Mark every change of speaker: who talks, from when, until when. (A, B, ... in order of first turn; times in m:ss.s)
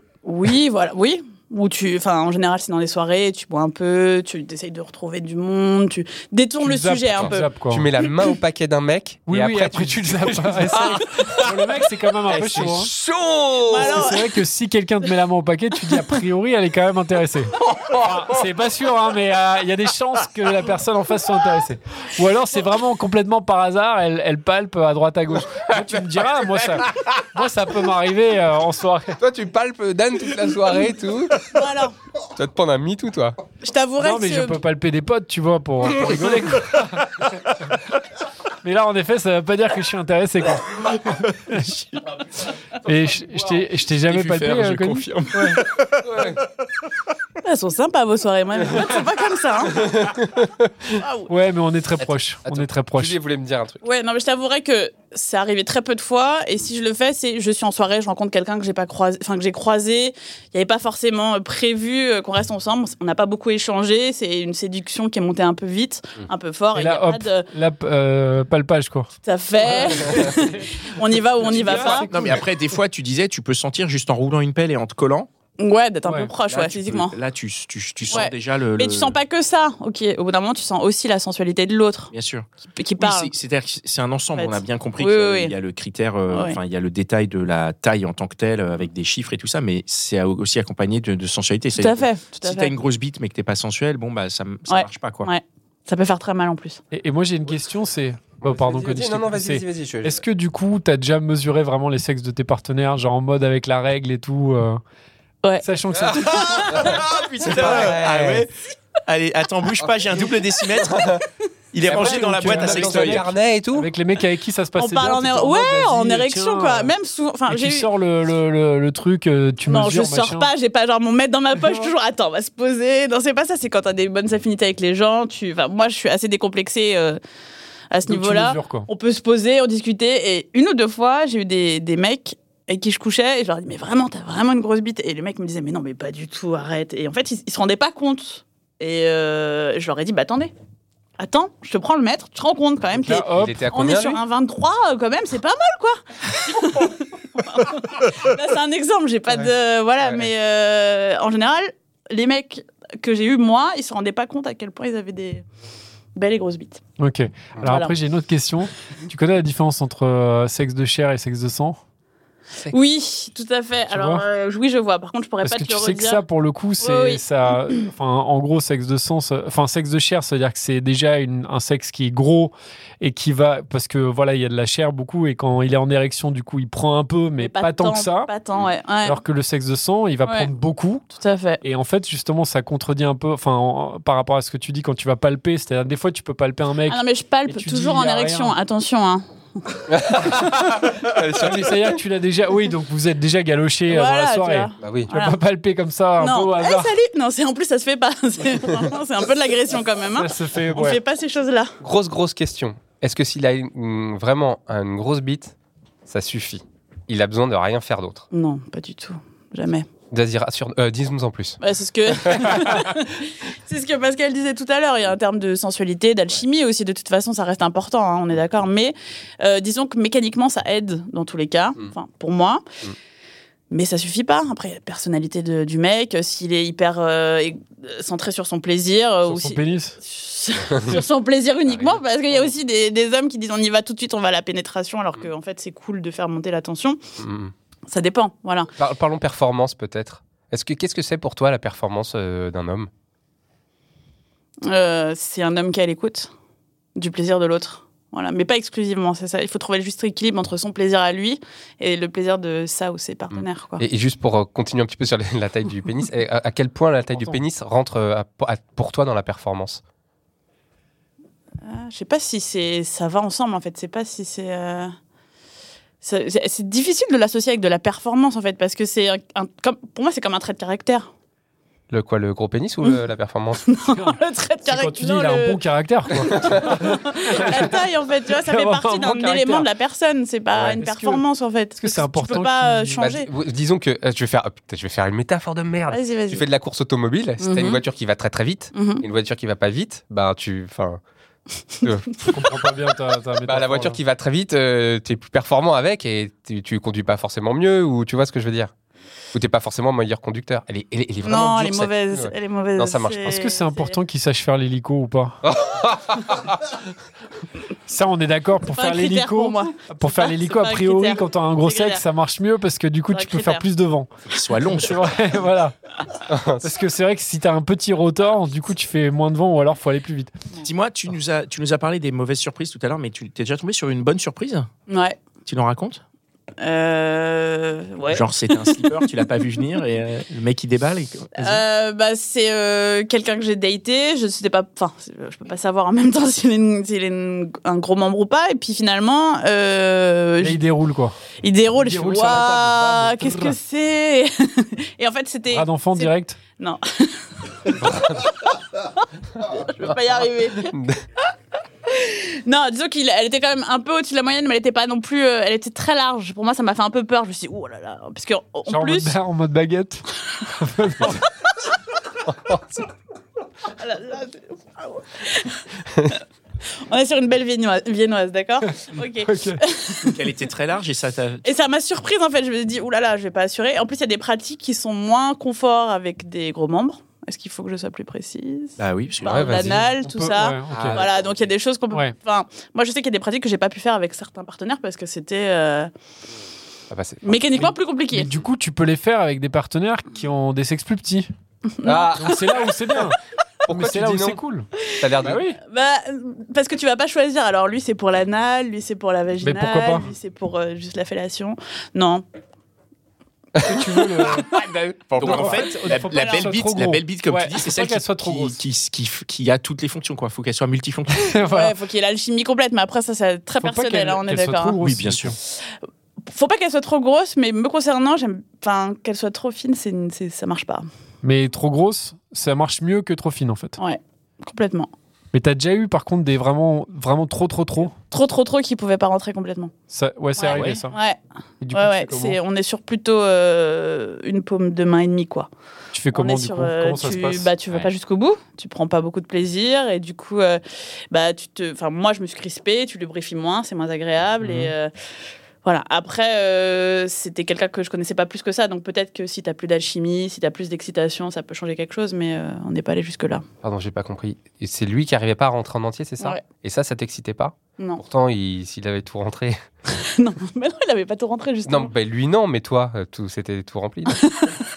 0:00.2-0:07.5 A
0:06.6-0:07.9 B
0:07.1-0:11.5 C
0:09.3-0:12.9 B
0:12.3-0:14.0 C
0:13.7-0:14.3 A
0:13.8-0:29.2 B
0:17.7-0:18.0 C
0:29.2-0:31.6 C
0:31.5-0:31.9 A
0:32.3-0:33.4 C
0:33.6-0:34.6 A
0:34.0-0:37.2 B
0:38.6-0:41.7 B
0:41.1-0:42.2 D
0:42.8-0:45.6 B
0:44.0-0:46.1 D
0:46.0-0:46.4 C
0:47.4-0:50.1 A
0:49.7-0:50.9 C
0:51.0-0:51.3 A
0:51.3-0:53.2 B
0:52.0-0:53.8 C
0:53.8-1:07.5 A
1:06.7-1:09.1 B
1:09.2-1:12.1 A
1:09.6-1:10.7 B
1:11.3-1:12.4 B
1:11.8-1:15.3 D
1:15.6-1:17.1 A
1:16.0-1:16.3 B
1:16.5-1:19.2 D
1:18.1-1:22.1 A
1:22.1-1:35.3 D
1:22.8-1:23.3 A
1:24.4-1:25.5 A
1:26.3-1:26.6 A
1:31.8-1:32.7 A
1:34.7-1:36.8 A
1:36.9-1:44.8 B
1:38.4-1:40.2 C
1:45.6-1:46.8 B
1:46.1-1:48.4 C
1:46.4-1:46.8 A
1:46.8-1:48.5 D
1:49.0-1:51.2 D
1:50.7-1:51.2 C
1:51.7-1:53.3 D
1:51.9-1:53.9 C
1:51.9-1:56.9 B
1:54.8-1:57.9 A
1:57.5-2:00.5 B
1:59.6-2:07.2 A
2:01.6-2:01.9 B
2:07.9-2:20.5 A
2:08.0-2:08.9 B
2:21.2-2:35.4 A
2:23.0-2:23.6 B
2:23.1-2:24.2 C
2:29.3-2:30.3 C
2:36.1-2:36.8 A
2:37.0-2:41.8 B
2:37.6-2:37.9 A
2:42.7-2:46.2 A
2:43.9-2:44.2 B
2:45.4-2:58.3 B
2:46.8-2:47.2 A
2:57.4-2:59.2 A
2:59.0-3:01.0 B
3:01.1-3:01.6 A
3:01.6-3:08.6 B
3:06.9-3:09.8 A
3:09.9-3:11.9 C
3:10.2-3:16.9 B
3:13.9-3:15.4 A
3:14.8-3:15.1 C
3:16.2-3:21.7 A
3:20.2-3:21.0 B
3:21.8-3:25.5 C
3:26.0-3:28.3 C
3:28.3-3:29.9 A
3:30.1-3:32.8 C
3:31.6-3:42.6 A
3:43.7-3:57.0 A
3:49.2-3:50.0 B
3:50.6-3:51.0 C
3:51.7-3:52.5 C
3:57.2-3:57.5 C
3:57.9-3:58.7 A
3:58.8-4:02.9 C
4:04.6-4:06.3 A
4:07.0-4:13.8 A
4:13.3-4:19.8 C
4:17.1-4:17.4 B
4:21.6-4:24.9 A
4:26.0-4:31.1 A
4:31.9-4:33.7 C
4:33.6-4:35.6 A
4:33.9-4:39.7 B
4:36.1-4:43.3 A
4:36.2-4:36.7 C
4:40.5-4:40.8 C
4:40.8-4:41.2 B
4:41.8-4:43.0 B
4:43.0-4:51.0 C
4:45.9-4:46.4 A
4:47.4-4:47.8 A
4:48.7-4:49.0 A
4:51.8-4:52.3 C
4:52.2-4:54.0 B
4:53.4-4:58.7 C
4:59.3-5:03.3 C
5:01.2-5:03.9 A
5:03.2-5:05.4 B
5:05.4-5:06.8 C
5:07.9-5:14.1 B
5:08.7-5:12.0 A
5:13.1-5:13.6 A
5:14.2-5:15.1 D
5:14.7-5:15.7 B
5:16.3-5:16.7 C
5:16.6-5:20.3 B
5:20.6-5:24.7 D
5:24.9-5:25.2 A
5:25.4-5:26.0 D
5:26.6-5:28.9 A
5:28.1-5:31.6 D
5:31.4-5:40.6 A
5:40.4-5:41.2 B
5:41.4-5:48.5 A
5:41.8-5:43.6 B
5:45.5-5:46.4 B
5:47.8-5:48.3 C
5:49.4-5:50.7 A
5:50.6-5:51.0 C
5:51.9-5:59.1 A
5:58.7-6:01.2 B
6:02.3-6:02.8 C
6:03.7-6:06.2 A
6:06.9-6:10.3 A
6:09.2-6:09.6 B
6:10.0-6:11.4 D
6:11.4-6:25.9 A
6:18.8-6:19.8 D
6:19.2-6:19.9 C
6:19.8-6:21.0 B
6:20.7-6:21.4 C
6:26.9-6:27.6 C
6:27.2-6:28.3 A
6:27.6-6:31.3 B
6:31.8-6:32.6 A
6:31.8-6:32.4 C
6:32.2-6:34.7 B
6:33.6-6:35.4 C
6:35.0-6:42.2 A
6:35.2-6:35.6 B
6:39.4-6:40.1 B
6:43.6-6:44.5 B
6:44.2-6:44.5 A
6:44.4-6:45.0 C
6:45.1-6:51.3 D
6:45.2-6:48.6 B
6:45.3-6:46.5 A
6:51.1-6:51.7 B
6:51.4-6:54.8 A
6:53.6-6:55.4 B
6:54.8-6:55.3 D
6:56.2-7:00.9 A
7:01.2-7:03.8 B
7:03.8-7:04.9 A
7:05.3-7:07.9 B
7:08.1-7:09.7 A
7:09.9-7:11.0 B
7:10.4-7:11.2 A
7:10.5-7:10.8 D
7:11.6-7:12.4 B
7:11.7-7:15.5 A
7:15.9-7:17.5 B
7:16.1-7:24.9 A
7:24.4-7:24.7 B
7:25.6-7:33.4 A
7:33.6-7:39.6 C
7:37.8-7:38.0 A
7:39.9-7:41.9 A
7:41.6-7:44.2 C
7:44.1-7:44.6 A